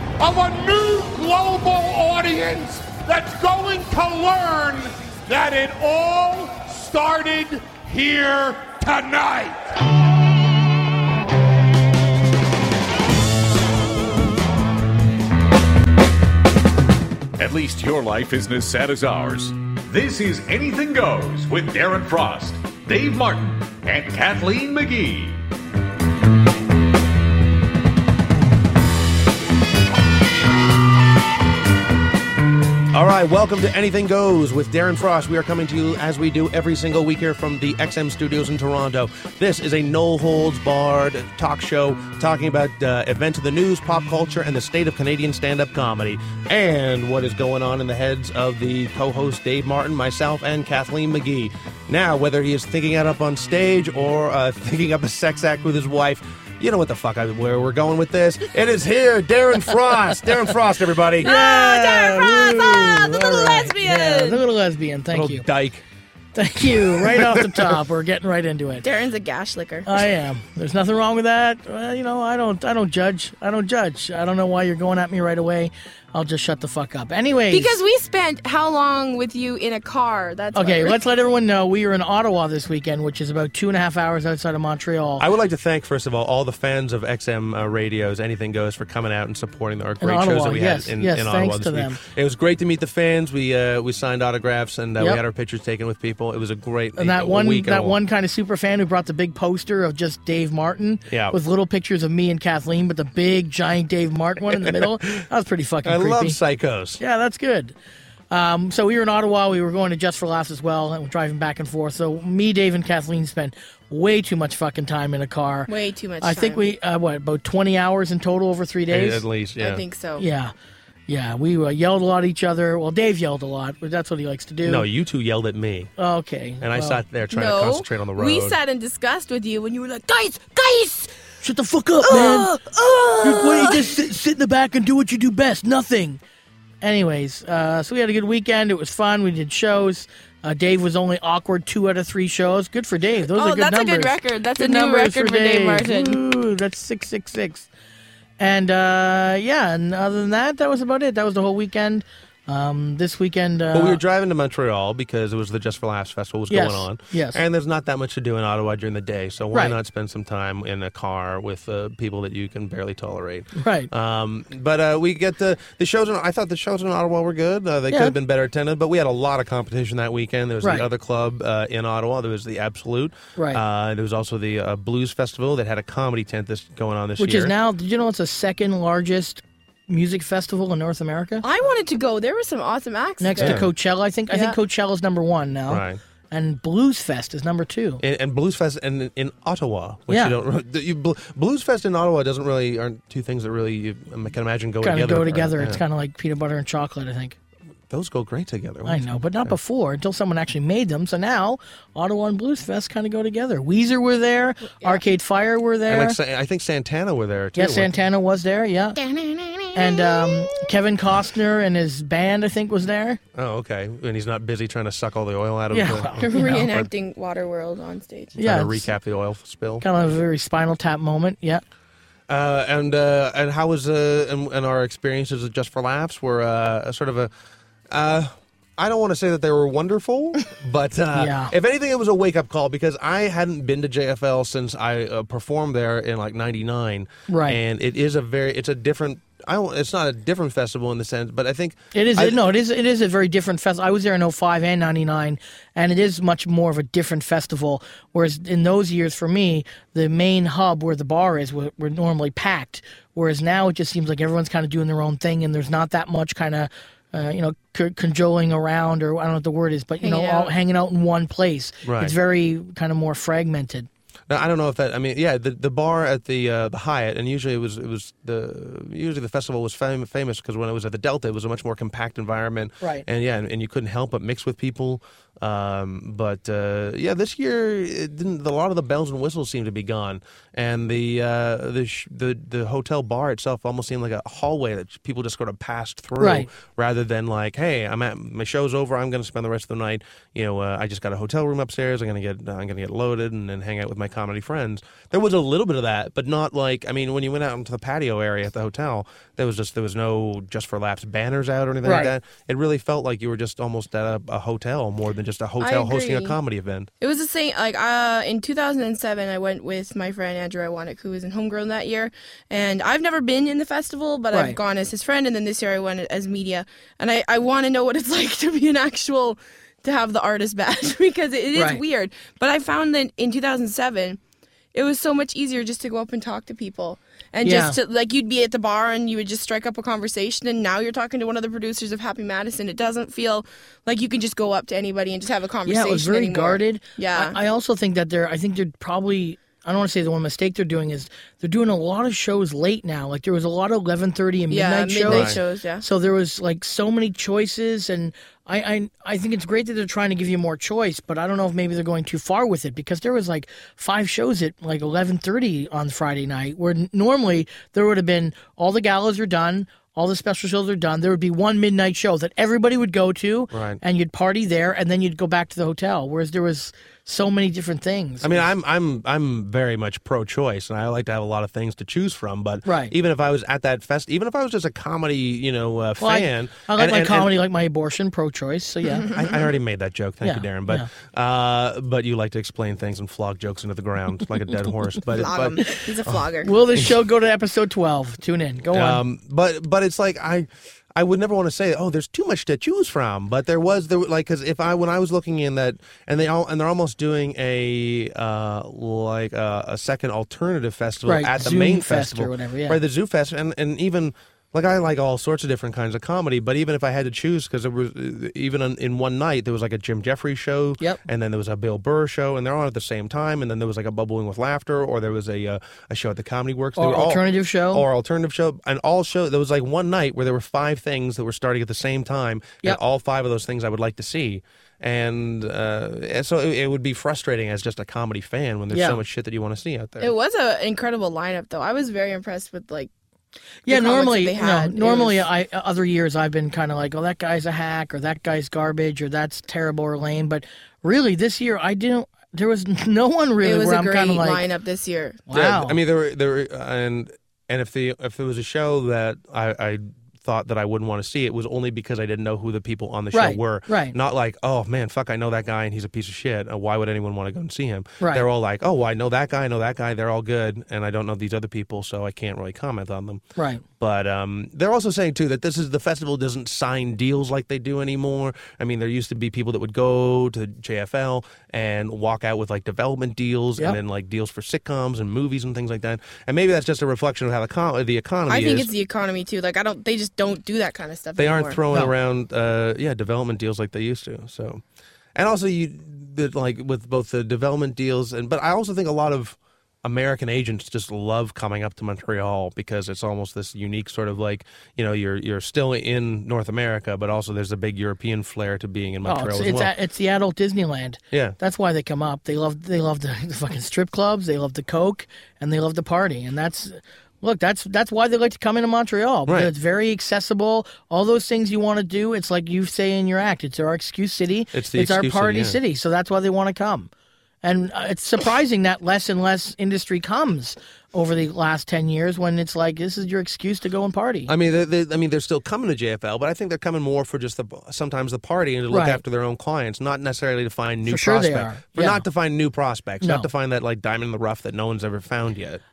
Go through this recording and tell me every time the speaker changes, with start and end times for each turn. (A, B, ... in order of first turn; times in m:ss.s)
0:00.2-0:09.7 A
0:17.4-0:25.4 B
0:32.9-1:01.3 C
1:01.2-1:05.4 D
1:01.2-1:04.4 E
1:05.1-1:05.8 C
1:06.3-1:08.9 D
1:06.9-1:07.8 C
1:08.8-1:09.9 E
1:09.8-1:17.8 D
1:17.5-1:20.9 E
1:20.5-1:25.3 D
1:25.2-1:38.0 C
1:30.0-1:32.0 D
1:37.0-1:46.4 D
1:41.1-1:41.4 C
1:44.6-1:45.2 C
1:45.8-1:47.0 C
1:47.0-1:47.7 D
1:48.3-1:55.7 D
1:55.7-1:56.7 E
1:56.2-1:59.2 D
1:58.9-1:59.8 C
1:59.6-2:00.2 E
2:00.2-2:00.5 D
2:01.1-2:04.8 D
2:04.6-2:05.9 C
2:06.0-2:07.0 D
2:06.6-2:08.6 C
2:07.3-2:11.2 E
2:11.4-2:12.5 D
2:12.0-2:13.9 E
2:13.2-2:16.2 D
2:16.8-2:27.7 D
2:23.3-2:26.2 E
2:28.4-2:34.0 D
2:33.7-2:57.5 C
2:36.5-2:37.4 D
2:43.6-2:43.9 D
2:47.9-2:48.1 D
2:50.6-2:50.9 D
2:57.2-3:01.4 D
3:01.4-3:03.6 E
3:03.2-3:08.0 D
3:03.4-3:03.7 C
3:04.3-3:04.6 E
3:05.7-3:06.0 C
3:08.0-3:15.8 C
3:10.1-3:10.4 D
3:14.8-3:17.4 D
3:17.9-3:19.6 C
3:18.8-3:26.2 D
3:25.9-3:27.9 C
3:27.6-3:29.0 D
3:29.0-3:30.6 E
3:29.7-3:33.2 D
3:33.3-3:36.9 C
3:35.7-3:36.6 D
3:36.2-3:38.3 E
3:38.4-3:39.8 C
3:38.4-3:38.9 D
3:39.8-3:41.6 D
3:42.3-3:47.3 C
3:47.9-4:02.4 C
3:51.1-3:51.5 D
3:57.3-3:57.6 D
4:01.9-4:23.9 D
4:20.0-4:20.5 E
4:21.8-4:22.1 C
4:24.3-5:06.9 C
4:46.2-4:46.5 D
5:01.8-5:02.1 D
5:05.6-5:06.4 E
5:07.0-5:24.2 E
5:21.5-5:21.8 D
5:24.7-5:37.4 E
5:27.4-5:27.8 D
5:35.6-6:08.4 D
5:44.5-5:45.8 E
5:45.0-5:45.4 C
6:03.5-6:03.8 C
6:08.2-6:17.3 C
6:12.6-6:12.9 D
6:16.0-6:19.1 D
6:19.0-6:26.2 C
6:20.2-6:20.9 D
6:25.1-6:26.5 E
6:26.4-6:29.0 D
6:28.7-7:10.1 C
6:41.0-6:42.8 D
6:56.8-6:57.8 D
7:08.7-7:09.0 D
7:10.0-7:12.9 E
7:13.6-7:24.4 D
7:13.7-7:15.3 E
7:23.4-7:25.3 E
7:25.3-7:25.8 D
7:25.3-7:43.2 C
7:33.1-7:33.9 D
7:38.0-7:38.2 D
7:43.4-7:43.6 D
7:43.8-7:58.7 C
7:58.3-8:01.6 E
8:01.2-8:04.6 C
8:05.1-8:19.7 C
8:19.0-8:36.9 D
8:34.5-8:35.6 C
8:37.4-8:44.3 D
8:44.3-8:55.6 C
8:48.7-8:49.0 D
8:50.8-8:52.0 D
8:53.0-8:53.3 D